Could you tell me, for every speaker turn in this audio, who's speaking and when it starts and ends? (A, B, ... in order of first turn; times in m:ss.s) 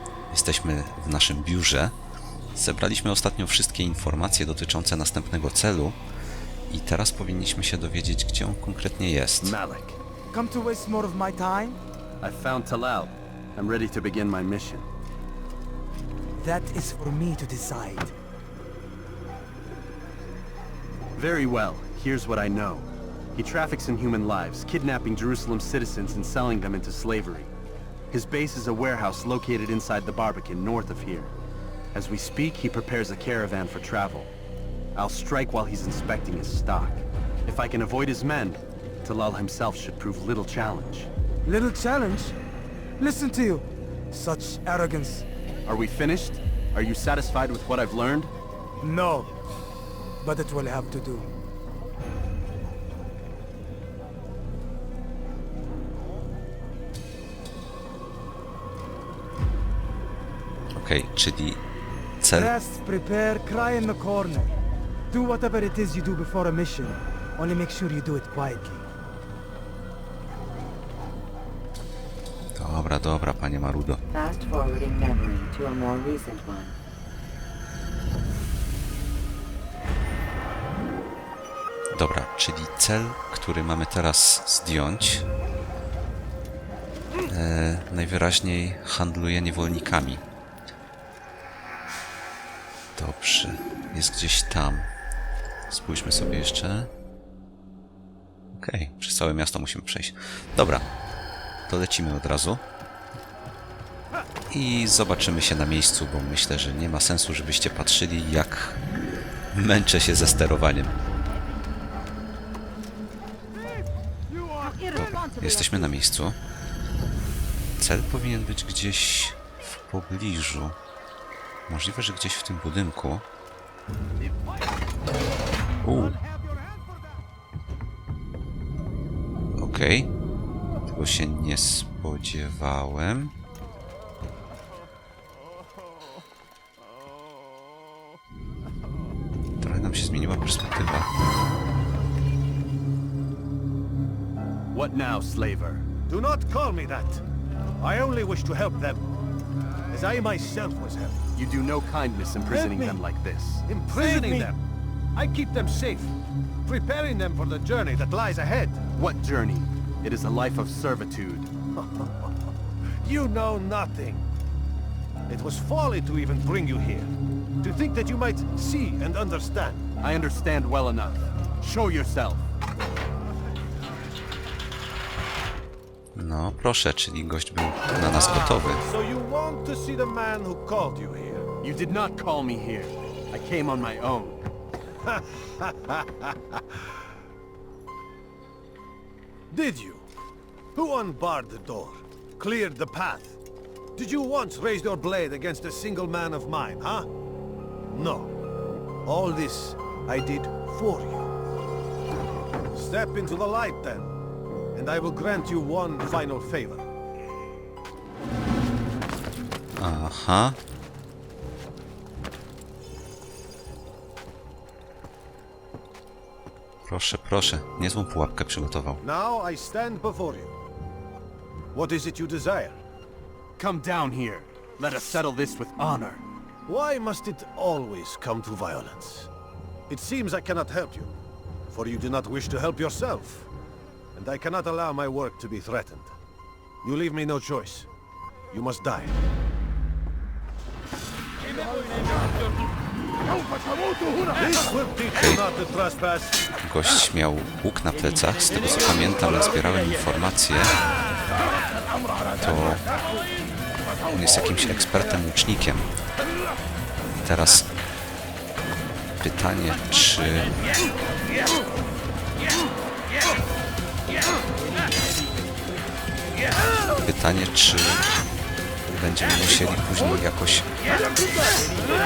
0:00.3-0:02.0 A
0:02.6-0:06.0 A
0:06.7-0:09.6 A
0:09.4-0:10.0 B
0:10.3-0:11.8 C
0:12.2-0:14.9 B
0:16.4-0:18.1 C
0:21.2-0:27.5 B
0:28.1-0:31.3 B
0:31.9-0:34.3 B
0:35.0-0:41.1 B
0:41.5-0:42.4 C
0:43.0-0:45.3 C
0:45.7-0:48.3 B
0:48.8-0:49.3 C
0:50.2-0:51.3 C
1:00.7-1:01.6 A
1:02.2-1:02.5 A
1:02.3-1:04.5 C
1:05.1-1:08.9 C
1:12.6-1:14.0 A
1:14.1-1:16.8 D
1:21.9-1:25.3 A
1:27.3-1:30.2 A
1:33.0-1:34.9 A
1:35.7-1:36.9 A
1:38.6-1:40.9 A
1:41.7-1:42.6 A
1:44.5-1:48.8 A
1:49.5-1:51.0 A
1:54.9-1:56.4 A
1:57.8-2:00.8 A
2:01.7-2:03.2 A
2:05.8-2:06.2 A
2:09.6-2:10.1 A
2:10.9-2:13.3 A
2:19.6-2:21.1 A
2:24.7-2:25.9 B
2:26.1-2:27.2 E
2:27.8-2:29.1 E
2:29.9-2:31.2 E
2:31.4-2:34.5 B
2:32.5-2:33.0 E
2:33.7-2:34.6 E
2:35.2-2:36.1 E
2:36.7-2:38.9 E
2:39.0-2:41.5 B
2:41.7-2:42.3 E
2:43.0-2:44.3 E
2:45.3-2:49.9 E
2:50.0-2:52.5 B
2:56.2-2:58.8 A
2:58.1-3:01.5 E
3:01.6-3:04.4 B
3:05.0-3:06.8 E
3:09.5-3:10.1 E
3:10.8-3:13.4 E
3:14.0-3:17.1 E
3:17.9-3:18.3 E
3:19.0-3:21.3 E
3:22.7-3:24.1 E
3:24.8-3:26.9 E
3:29.8-3:30.6 A
3:36.9-3:39.0 A
3:39.0-3:40.5 E
3:41.7-3:42.8 E
3:43.6-3:46.2 B
3:46.7-3:49.3 E
3:49.9-3:51.1 E
3:51.7-3:53.5 E
3:54.2-3:56.2 E
3:56.8-3:57.9 E
3:58.5-3:59.2 E
4:04.4-4:06.5 E
4:05.1-4:05.4 A
4:06.6-4:10.8 A
4:12.4-4:12.8 A
4:14.1-4:15.9 A
4:17.2-4:17.7 A
4:19.2-4:20.6 A
4:27.0-4:28.1 A
4:28.9-4:30.7 A